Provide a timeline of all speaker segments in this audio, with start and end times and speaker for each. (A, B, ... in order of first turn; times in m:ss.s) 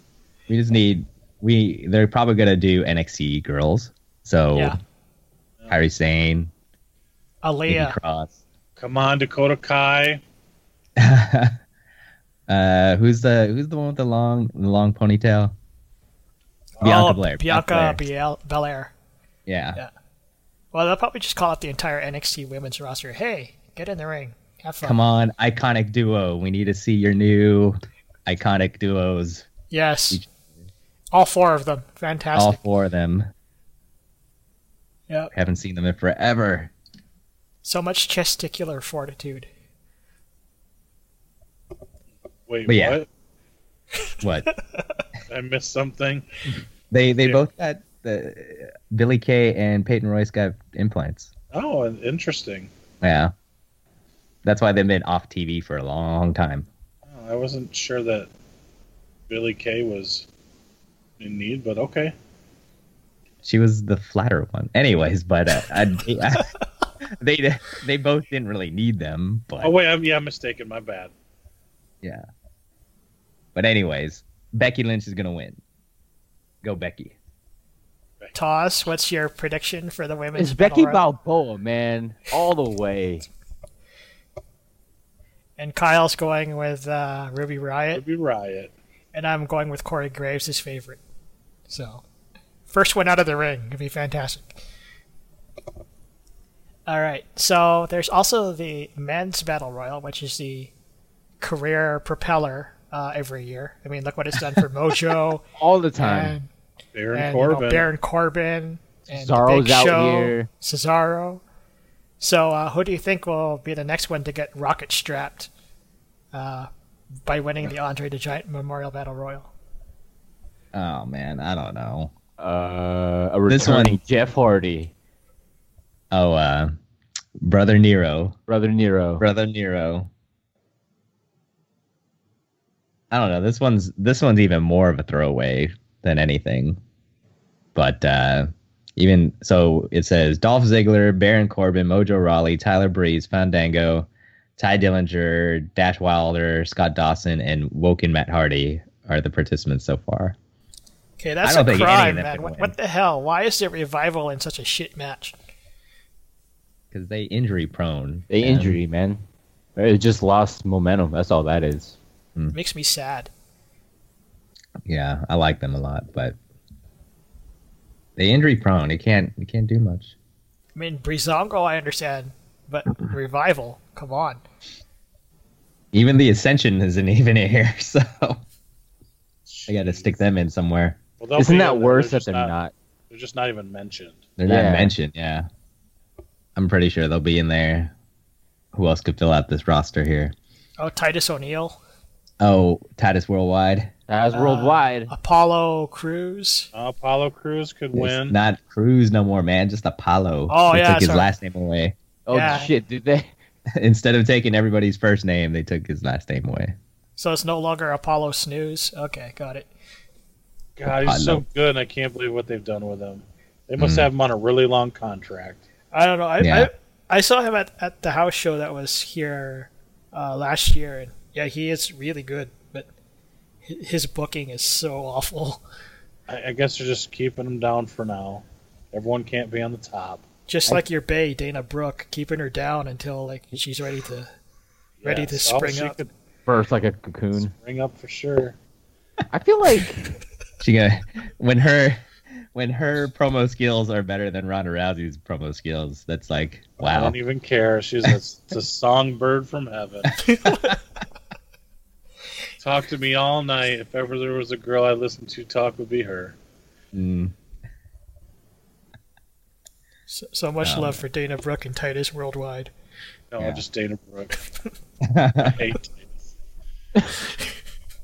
0:00.5-0:04.8 A
0:05.7-0:06.5 A
0:07.4-0:08.0 B
0:07.7-0:08.4 A
0:08.8-0:10.2 C
0:11.0-0:11.6 A
0:12.5-0:15.6 A
0:16.8-0:18.9 B
0:16.8-0:18.0 A
0:19.5-0:19.8 A
0:20.7-0:25.0 B
0:24.8-0:29.5 A
0:29.7-0:30.2 B
0:31.1-0:32.6 B
0:32.4-0:33.3 A
0:35.3-0:36.7 A
0:37.6-0:39.5 B
0:42.5-0:43.1 C
0:42.7-0:43.0 A
0:44.2-0:44.5 A
0:45.3-0:46.3 C
0:46.9-0:51.3 A
0:51.5-0:52.7 C
0:53.0-0:53.3 A
0:54.4-0:56.7 A
0:57.1-0:58.3 C
0:59.3-1:00.3 C
1:01.2-1:02.1 C
1:03.4-1:06.5 A
1:07.0-1:09.8 A
1:09.6-1:11.1 C
1:13.6-1:15.6 A
1:16.6-1:17.2 A
1:18.3-1:21.0 B
1:20.4-1:23.3 D
1:25.6-1:28.0 B
1:27.9-1:28.7 C
1:29.1-1:31.0 B
1:31.7-1:32.0 B
1:32.7-1:34.6 B
1:36.9-1:40.7 B
1:41.4-1:45.4 B
1:45.6-1:46.4 D
1:46.0-1:46.5 B
1:46.9-1:47.9 C
1:47.1-1:51.4 B
1:49.1-1:50.5 D
1:52.2-1:55.5 B
1:56.3-1:56.7 B
1:57.3-1:59.5 B
2:00.7-2:02.1 A
2:02.4-2:04.9 D
2:03.5-2:04.0 A
2:06.1-2:06.8 A
2:07.4-2:08.4 A
2:08.5-2:09.2 D
2:09.2-2:10.1 A
2:13.1-2:16.8 A
2:17.8-2:30.4 A
2:31.2-2:35.4 B
2:31.4-2:32.7 A
2:36.9-2:38.8 A
2:38.3-2:39.2 D
2:39.8-2:42.0 D
2:42.5-2:43.3 B
2:44.8-2:46.4 A
2:48.2-2:50.1 A
2:50.8-2:54.4 B
2:55.9-2:58.4 A
2:59.5-3:00.2 C
2:59.7-3:01.0 A
3:01.2-3:02.6 C
3:01.4-3:02.7 D
3:03.1-3:04.2 C
3:04.4-3:05.5 A
3:04.5-3:04.9 D
3:06.6-3:07.9 A
3:08.7-3:10.3 A
3:10.8-3:11.8 B
3:12.4-3:13.9 A
3:14.1-3:15.1 D
3:14.3-3:16.7 B
3:16.7-3:18.4 C
3:18.0-3:22.0 A
3:20.5-3:21.3 B
3:22.3-3:23.3 D
3:22.3-3:22.7 B
3:23.8-3:26.8 A
3:27.2-3:29.7 B
3:30.8-3:35.6 C
3:30.9-3:31.4 A
3:33.8-3:34.1 A
3:35.9-3:42.9 B
3:36.4-3:36.7 A
3:43.6-3:45.6 B
3:46.3-3:50.2 C
3:50.5-3:54.3 B
3:55.0-3:56.1 C
3:55.0-3:56.0 B
3:56.5-3:57.5 D
3:57.4-3:58.6 C
3:59.3-4:00.2 D
4:00.6-4:07.2 A
4:06.8-4:10.2 C
4:10.3-4:10.7 B
4:10.3-4:10.8 A
4:12.6-4:16.4 C
4:16.9-4:17.3 A
4:20.1-4:22.7 B
4:20.6-4:21.0 A
4:23.3-4:24.4 C
4:23.4-4:23.6 A
4:25.0-4:25.6 A
4:25.4-4:26.3 C